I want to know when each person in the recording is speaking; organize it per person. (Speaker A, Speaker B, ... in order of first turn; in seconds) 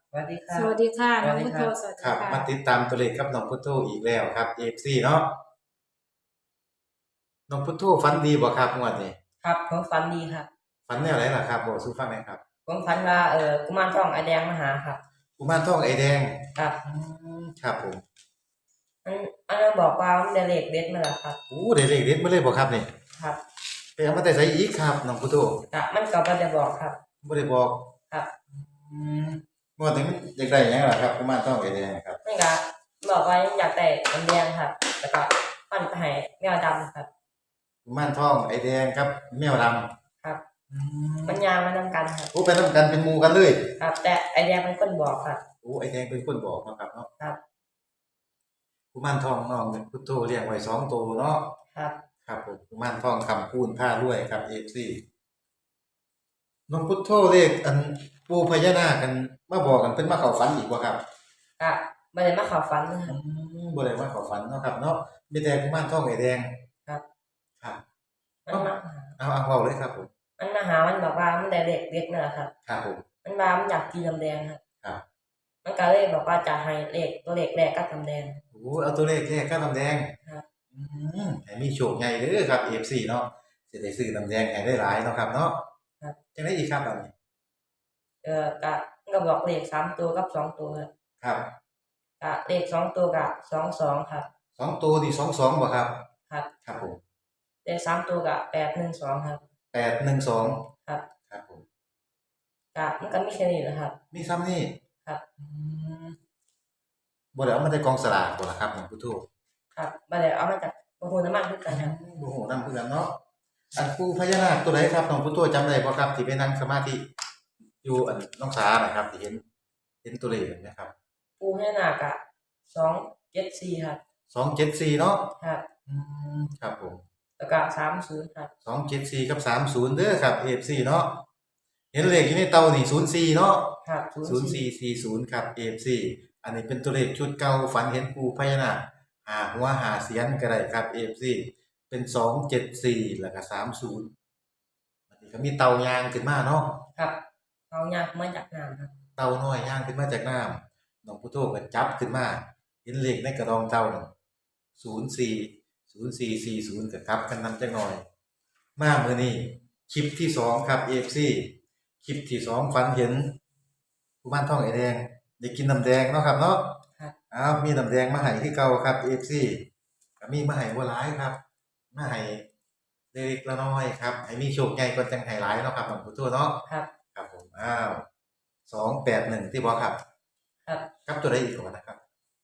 Speaker A: 0.1-1.7, 9.4-10.5, 12.7-15.0, 19.0-21.4, 25.7-27.0, 32.2-37.1, 41.2-42.3, 43.8-45.4, 61.6-63.1, 68.5-69.1, 70.4-72.5, 73.2-74.6, 75.6-78.4, 88.2-90.9, 92.2-94.3, 97.7-99.4, 102.7-104.0, 109.8-111.9, 121.4-124.0, 125.4-125.7, 127.4-128.5, 133.8-134.7, 147.7-148.9
Speaker B: 0.5-2.5
Speaker C: 2.0-5.3, 7.5-9.2, 10.9-12.4, 15.4-18.0, 21.5-22.9, 24.0-25.6, 27.2-27.9, 28.5-32.2, 37.9-39.9, 40.7-41.4, 42.3-43.7, 45.6-47.1, 48.9-51.4, 52.3-55.0, 56.7-61.0, 63.1-66.5, 68.5-70.1, 72.7-73.0, 78.5-80.1, 80.7-85.6, 86.3-87.1, 94.6-96.0, 96.6-97.0, 99.7-100.6, 101.3-101.6, 104.1-104.8, 105.4-106.2, 107.3-109.2, 111.7-113.2, 113.8-117.0, 117.8-119.4, 120.0-120.9, 124.3-125.3, 125.9-127.0, 128.6-131.2, 131.9-144.1, 145.1-146.8, 149.2-154.1, 154.8-158.0, 158.8-161.5, 162.0-163.3, 164.2-166.8, 167.3-169.6, 170.2-171.4, 171.9-172.4, 173.1-176.6, 177.1-178.0, 178.7-180.0, 181.1-182.0